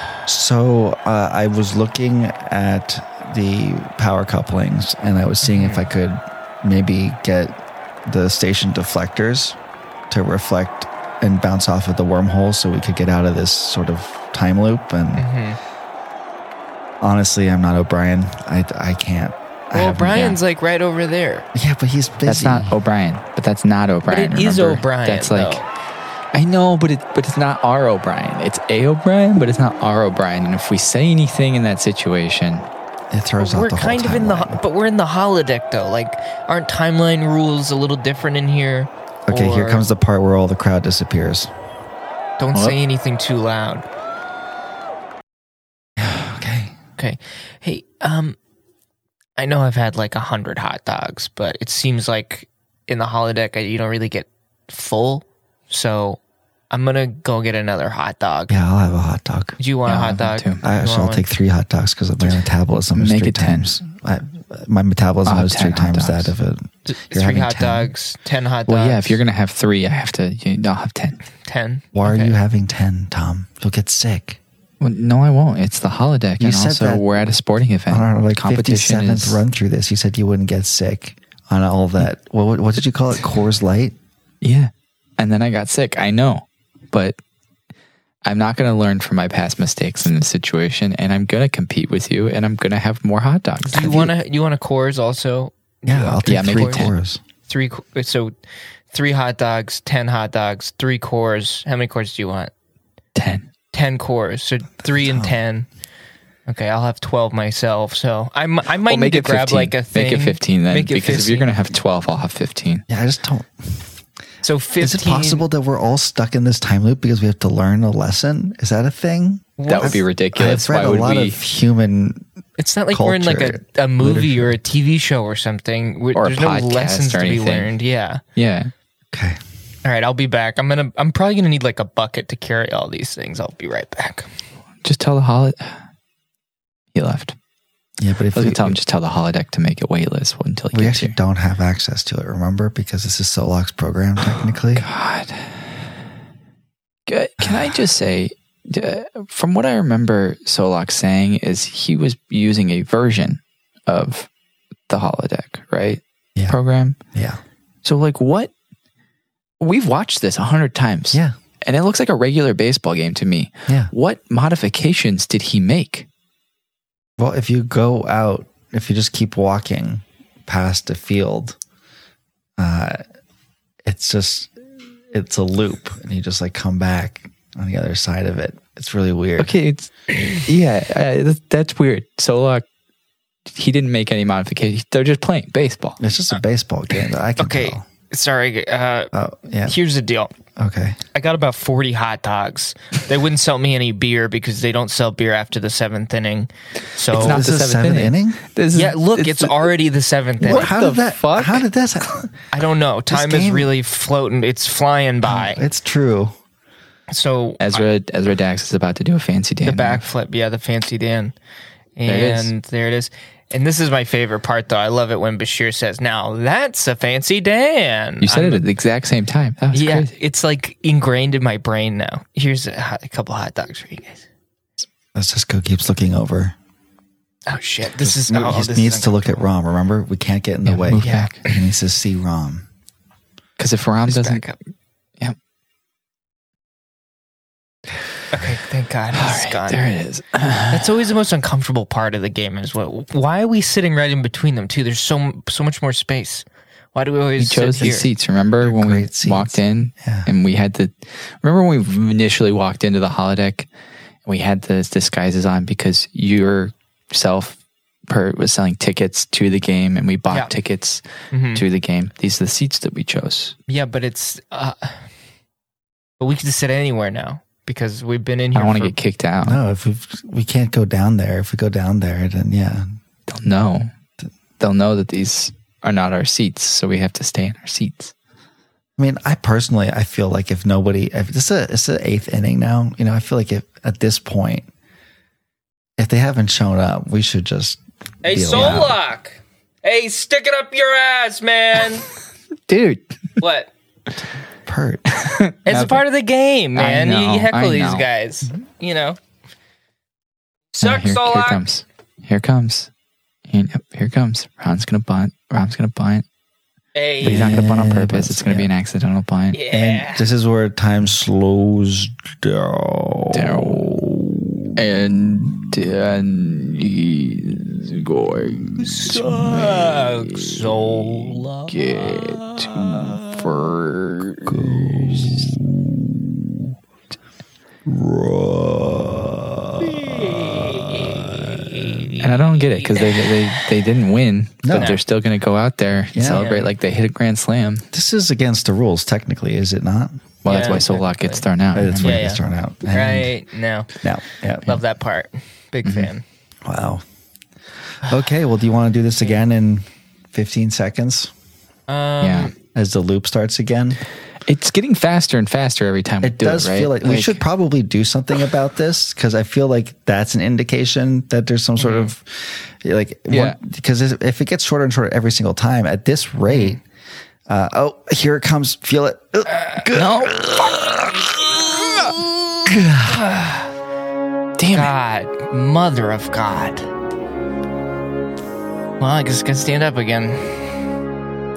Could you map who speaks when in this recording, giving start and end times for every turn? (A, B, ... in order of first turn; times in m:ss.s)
0:00.3-0:09.6 A
0:05.4-0:05.8 B
0:10.1-0:15.2 A
0:15.2-0:15.6 B
0:17.0-0:20.2 A
0:19.7-0:21.5 B
0:20.0-0:20.4 C
0:21.5-0:22.7 A
0:22.2-0:25.6 C
0:24.1-0:25.6 B
0:26.3-0:32.7 C
0:33.1-0:34.6 A
0:33.4-0:39.8 B
0:39.3-0:41.5 A
0:42.4-0:43.8 B
0:46.1-0:46.7 A
0:47.0-0:48.4 B
0:49.4-0:56.2 B
0:56.7-0:58.5 B
0:58.5-0:59.6 A
0:59.6-1:01.2 B
0:59.9-1:00.6 C
1:00.6-1:07.9 A
1:02.9-1:03.8 C
1:05.2-1:06.3 C
1:06.9-1:09.2 B
1:08.7-1:11.2 C
1:11.4-1:12.4 B
1:11.9-1:14.4 A
1:14.8-1:19.4 C
1:16.4-1:17.1 A
1:17.9-1:23.9 A
1:24.4-1:27.2 C
1:28.2-1:34.0 C
1:33.6-1:36.9 B
1:33.7-1:34.1 A
1:35.8-1:37.2 A
1:36.2-1:36.9 C
1:37.5-1:38.3 B
1:38.9-1:42.5 B
1:43.1-1:43.5 C
1:43.7-1:45.7 B
1:44.8-1:45.3 A
1:46.4-1:51.5 B
1:48.8-1:52.8 C
1:52.9-1:53.9 A
1:54.4-1:55.4 B
1:54.8-2:02.3 A
1:59.6-2:00.0 B
1:59.6-2:01.4 C
2:02.6-2:08.2 B
2:02.9-2:04.6 A
2:06.1-2:07.7 C
2:08.4-2:08.7 C
2:09.1-2:09.4 A
2:09.8-2:14.3 B
2:14.8-2:15.8 C
2:16.9-2:17.3 C
2:18.0-2:18.8 A
2:18.3-2:21.2 C
2:20.7-2:24.8 A
2:24.7-2:25.7 C
2:27.1-2:34.3 C
2:27.4-2:27.7 A
2:34.9-2:37.0 C
2:37.1-2:37.4 A
2:37.8-2:38.5 C
2:39.6-2:46.1 C
2:47.2-2:51.6 A
2:52.6-2:53.0 A
2:53.8-2:54.5 A
2:55.1-2:59.5 A
2:59.4-3:02.6 C
3:03.5-3:06.0 C
3:06.0-3:07.8 A
3:07.4-3:09.1 B
3:09.1-3:09.8 A
3:09.6-3:10.3 B
3:10.6-3:11.0 A
3:11.1-3:17.4 B
3:17.1-3:18.4 A
3:17.1-3:19.6 C
3:18.7-3:20.7 B
3:20.4-3:22.4 A
3:20.4-3:21.6 C
3:22.5-3:25.6 B
3:23.1-3:23.7 A
3:25.2-3:26.3 A
3:27.1-3:27.8 B
3:27.6-3:30.0 C
3:29.6-3:31.3 B
3:32.0-3:38.6 B
3:32.1-3:32.5 C
3:38.2-3:40.1 C
3:39.7-3:44.2 B
3:45.1-3:46.5 A
3:47.5-3:49.4 B
3:48.0-3:52.7 A
3:50.6-3:51.4 C
3:51.0-3:51.6 B
3:53.6-3:54.5 C
3:54.1-3:54.6 B
3:58.3-3:59.8 B
3:59.2-4:00.8 C
4:00.7-4:08.1 B
4:07.4-4:13.7 C
4:08.6-4:10.3 A
4:14.2-4:23.5 C
4:21.3-4:21.6 B
4:23.7-4:25.0 B
4:26.2-4:29.0 B
4:28.5-4:29.6 C
4:29.4-4:32.9 A
4:33.3-4:33.9 C
4:34.6-4:38.1 C
4:39.0-4:44.7 A
4:46.0-4:49.0 A
4:48.2-4:52.1 B
4:52.7-4:53.2 C
4:53.4-4:53.7 B
4:54.6-4:55.1 A
4:55.2-4:56.0 C
4:55.6-4:59.2 B
4:56.8-4:58.0 C
5:00.7-5:01.6 B
5:00.8-5:02.9 C
5:03.5-5:06.2 C
5:06.9-5:07.6 B
5:07.2-5:08.7 A
5:07.2-5:09.6 C
5:09.5-5:10.2 B
5:09.7-5:15.8 A
5:13.3-5:13.9 C
5:14.8-5:25.5 C
5:18.8-5:22.3 B
5:22.8-5:23.1 A
5:24.4-5:26.6 A
5:27.8-5:32.1 A
5:30.0-5:33.6 B
5:32.2-5:37.9 C
5:34.6-5:35.0 A
5:34.7-5:35.0 B
5:36.1-5:36.5 A
5:36.3-5:36.7 B
5:37.9-5:40.2 A
5:40.4-5:42.3 C
5:40.4-5:41.4 B
5:41.7-5:43.3 A
5:42.0-5:43.9 B
5:44.0-5:44.8 A
5:44.6-5:46.2 B
5:45.8-5:46.1 C
5:46.6-5:47.0 A
5:48.0-5:51.3 A
5:51.9-5:52.5 B
5:52.2-5:52.5 C
5:52.7-5:54.0 A
5:54.5-5:57.4 C
5:56.2-6:06.8 A
6:01.8-6:02.1 B
6:03.3-6:03.6 C
6:06.5-6:06.8 B
6:07.5-6:11.2 A
6:09.9-6:10.4 C
6:12.7-6:13.2 A
6:13.0-6:13.7 B
6:14.6-6:14.9 C
6:14.7-6:16.9 B
6:19.0-6:20.8 B